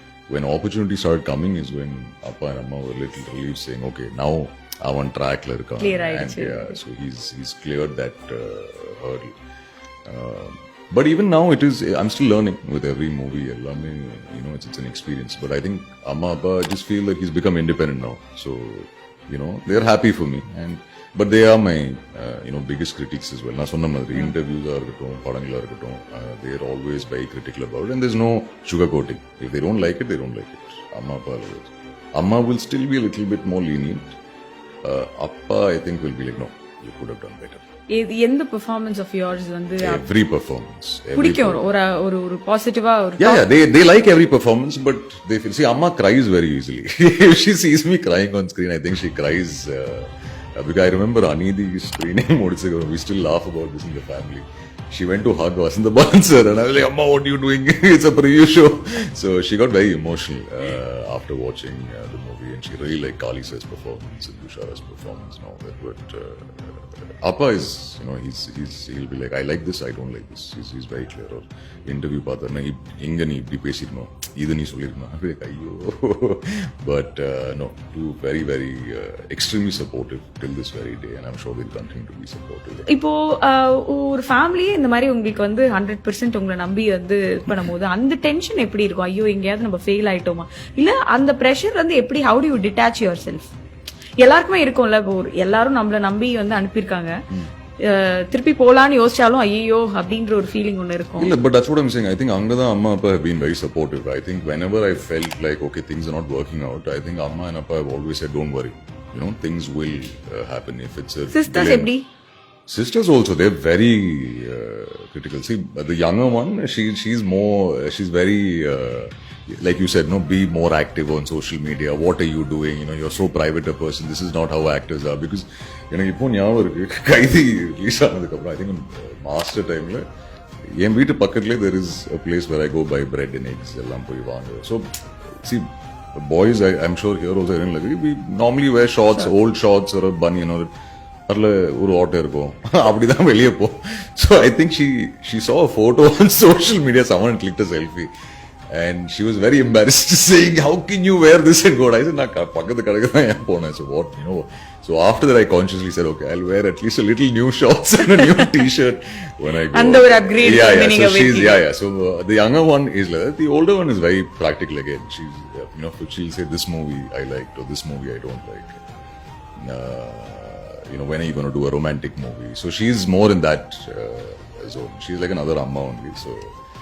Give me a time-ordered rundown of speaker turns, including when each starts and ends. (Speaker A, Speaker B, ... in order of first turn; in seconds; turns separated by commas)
Speaker A: 0.3-9.3, Speaker B: 5.8-6.8, Speaker A: 10.1-34.2, Speaker A: 34.8-37.6, Speaker B: 37.9-40.0, Speaker A: 39.8-41.6, Speaker B: 41.2-43.4, Speaker A: 43.2-82.9, Speaker B: 82.9-93.5, Speaker B: 94.2-97.1, Speaker B: 97.8-101.3, Speaker A: 101.2-111.9, Speaker B: 111.3-112.1, Speaker A: 112.7-130.0, Speaker A: 130.7-140.7, Speaker A: 141.3-148.1, Speaker A: 148.7-168.8, Speaker B: 159.7-161.6, Speaker A: 169.6-176.5